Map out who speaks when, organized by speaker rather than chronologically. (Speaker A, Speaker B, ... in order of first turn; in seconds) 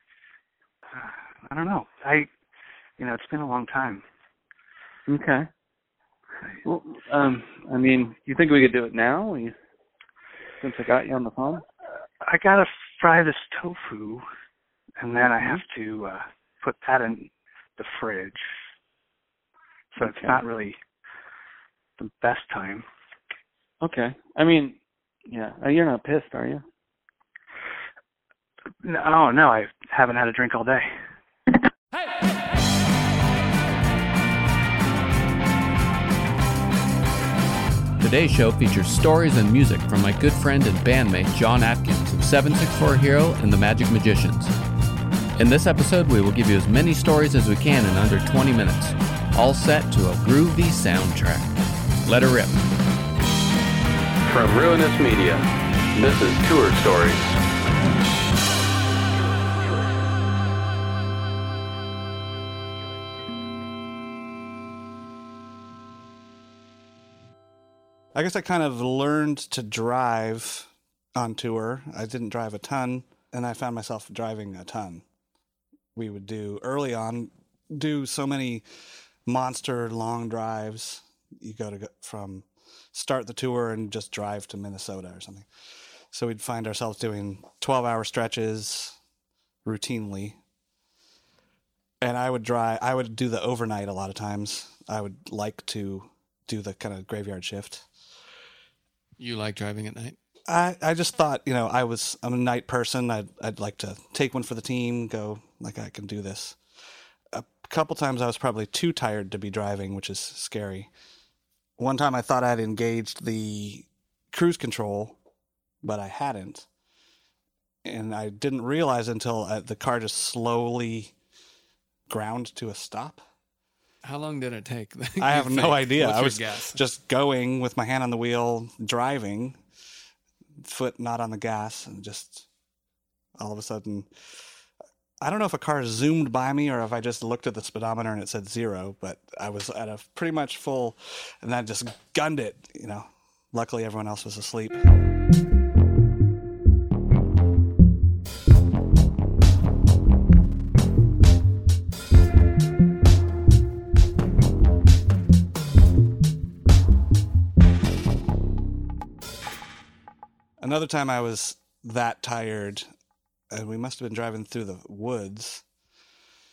Speaker A: 0.9-2.3, 3.0-4.0, 12.2-14.2, 15.0-18.4, 19.9-20.8, 22.0-22.9, 28.8-30.9
Speaker B: 5.1-5.5, 6.6-9.5, 10.6-11.6, 15.2-15.6, 20.0-20.4, 23.8-24.8, 25.3-26.6
Speaker C: 38.0-44.5, 45.4-52.7, 99.2-100.2, 124.0-126.8
Speaker D: 54.3-57.3
Speaker E: 68.2-75.0, 76.0-78.6, 79.3-85.5, 86.1-89.0, 89.7-90.4, 92.0-97.9, 100.5-106.6, 107.3-110.9, 111.8-115.2, 115.8-116.7, 117.8-121.1, 122.1-123.2, 125.2-129.6, 130.6-132.5, 133.4-134.1, 135.2-144.8, 160.6-162.9, 163.5-165.6